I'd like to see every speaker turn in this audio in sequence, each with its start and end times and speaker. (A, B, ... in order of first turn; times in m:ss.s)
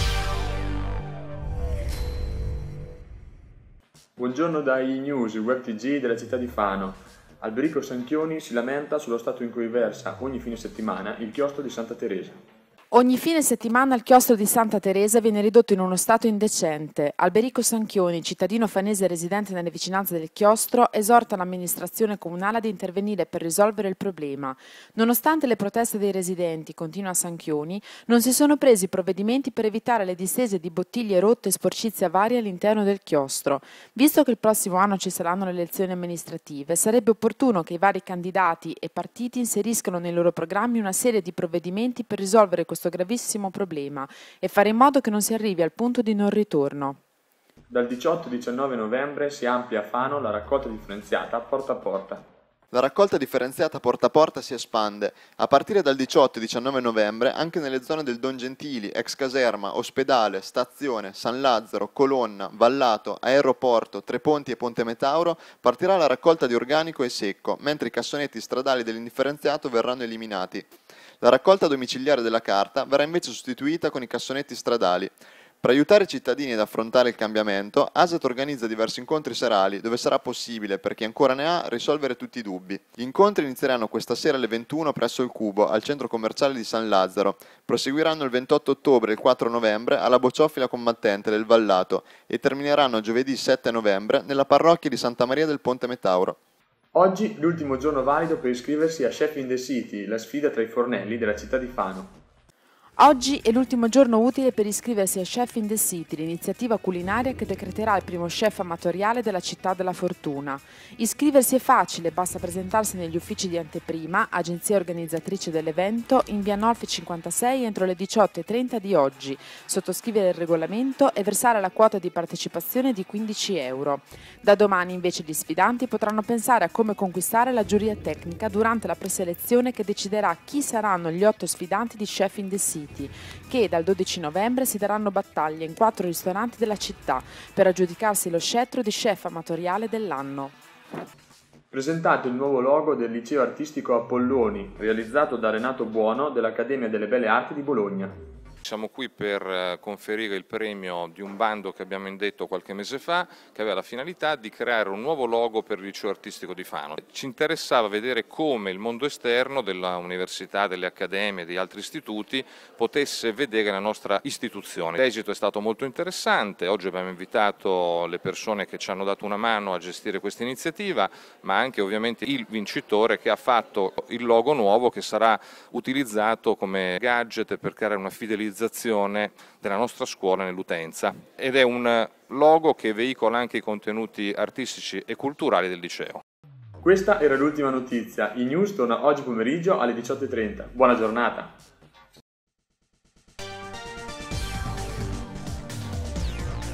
0:04.2-0:12.4 A
0:12.9-0:47.0 B
0:47.7-0:52.2 A
0:52.7-1:10.7 C
1:11.2-1:36.4 C
1:37.0-1:42.2 A
1:43.0-2:20.6 B
2:21.7-2:28.2 A
2:28.6-3:06.2 D
3:06.8-3:11.6 A